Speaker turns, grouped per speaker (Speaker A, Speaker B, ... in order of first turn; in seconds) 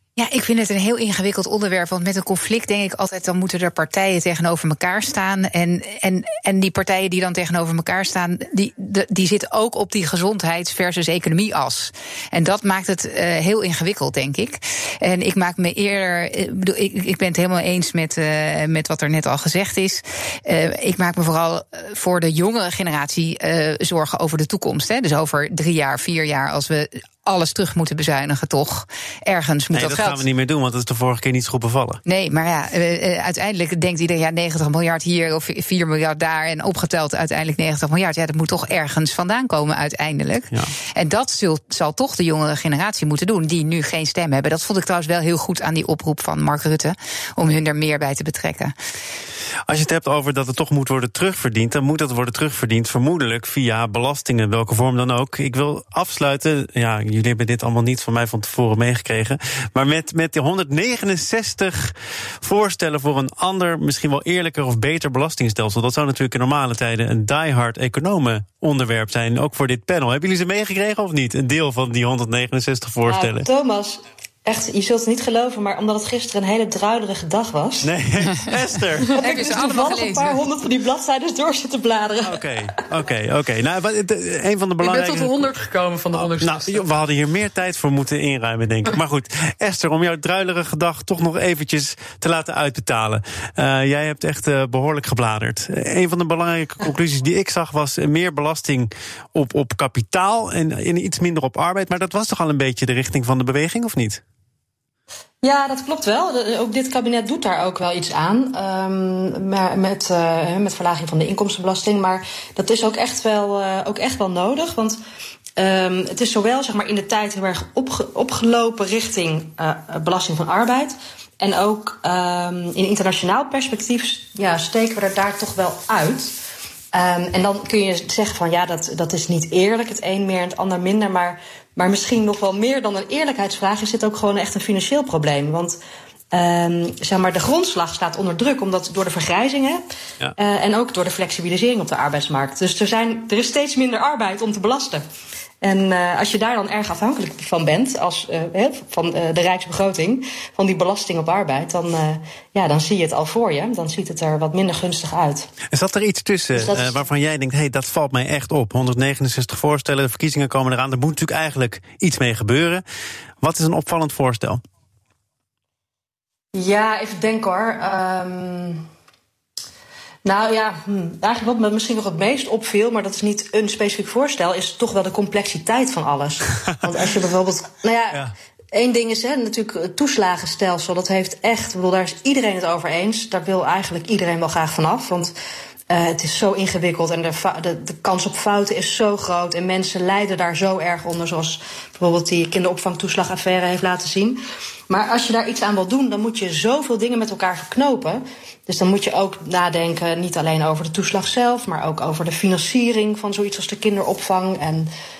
Speaker A: 0.2-30.2, 32.0-48.7, 79.1-80.4
Speaker B: 29.7-32.0, 49.7-73.5, 77.8-79.2, 82.2-85.5, 86.1-104.2, 155.7-162.8, 163.4-164.6
Speaker C: 73.0-77.9, 79.2-82.5, 105.4-115.0, 115.6-126.4, 126.9-135.8, 136.3-139.8, 140.4-145.0, 145.6-155.5, 156.5-157.0, 166.5-168.9, 170.2-185.3, 185.9-204.9
Speaker D: 84.8-86.8